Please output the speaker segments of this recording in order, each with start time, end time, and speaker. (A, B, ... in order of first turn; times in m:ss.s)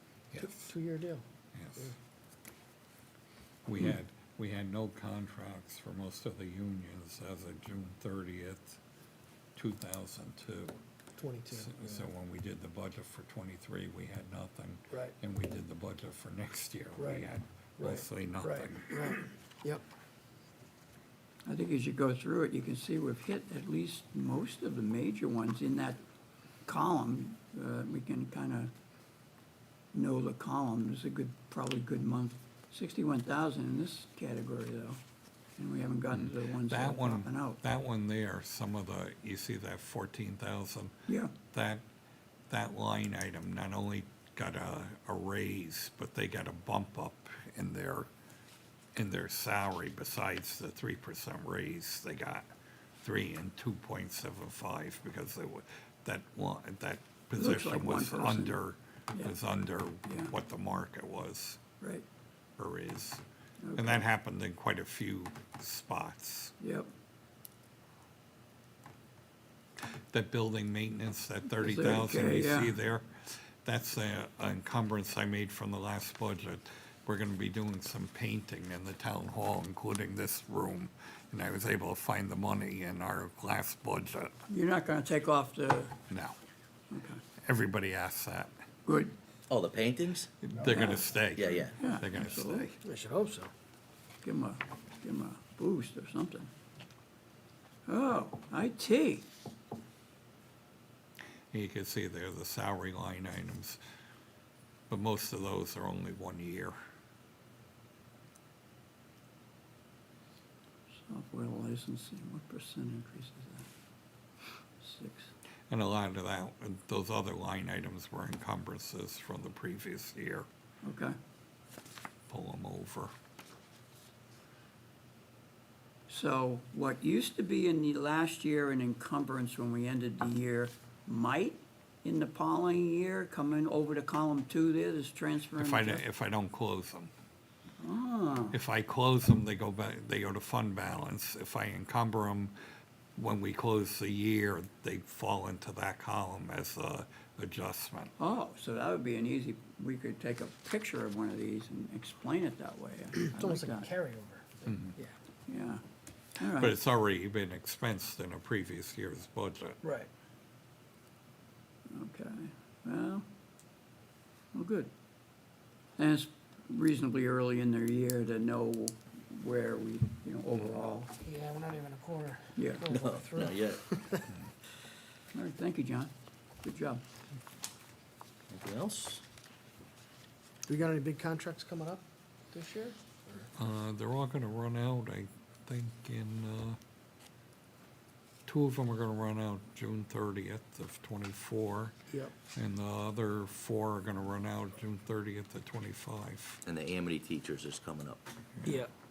0:00.3-0:00.7 A
0:00.4-0:01.2 B
0:01.5-0:01.9 A
0:03.7-0:08.8 A
0:09.6-0:10.8 A
0:11.2-0:12.1 B
0:11.5-0:19.1 A
0:14.9-0:15.2 B
0:17.0-0:19.8 B
0:21.5-0:26.0 C
0:26.6-0:28.7 C
0:29.9-0:35.0 C
0:35.6-0:37.6 C
0:36.1-0:41.0 A
0:41.1-0:41.3 C
0:41.5-0:41.8 A
0:42.5-0:48.1 A
0:49.0-0:52.5 A
0:53.0-1:01.6 A
0:57.4-0:58.6 C
1:00.0-1:00.3 C
1:01.8-1:02.1 C
1:02.6-1:03.2 A
1:03.6-1:04.0 C
1:03.8-1:06.5 A
1:06.6-1:06.9 C
1:09.8-1:13.1 A
1:11.6-1:12.8 C
1:13.6-1:24.4 A
1:24.5-1:26.0 C
1:26.1-1:26.4 A
1:26.9-1:27.2 C
1:27.4-1:28.5 A
1:28.9-1:29.2 C
1:29.5-1:30.3 D
1:30.4-1:32.8 A
1:30.6-1:30.9 B
1:30.7-1:31.0 C
1:31.4-1:31.7 D
1:31.8-1:32.7 C
1:32.8-1:33.5 B
1:34.2-1:36.5 C
1:37.9-1:39.3 C
1:41.5-1:43.8 A
1:44.9-1:46.8 A
1:51.0-1:53.7 C
1:54.8-1:55.3 C
1:55.7-2:00.5 A
2:00.8-2:01.2 C
2:02.3-2:03.1 A
2:06.1-2:16.0 C
2:15.6-2:17.1 A
2:17.8-2:18.6 C
2:18.5-2:22.6 A
2:23.2-2:28.1 A
2:28.2-2:33.9 C
2:33.3-2:34.7 B
2:34.7-2:34.9 A
2:35.0-2:35.8 C
2:36.4-2:36.8 C
2:36.5-2:39.8 A
2:41.9-2:43.3 C
2:44.5-2:44.9 C
2:46.0-2:51.1 C
2:51.2-2:54.3 B
2:52.6-2:52.8 C
2:52.9-2:53.8 D
2:55.3-2:56.1 C
2:56.6-2:57.0 C
2:58.5-2:59.2 D
3:00.7-3:03.5 B
3:03.6-3:06.8 A
3:08.5-3:12.0 A
3:12.6-3:16.6 A
3:16.7-3:18.2 D
3:18.6-3:18.9 B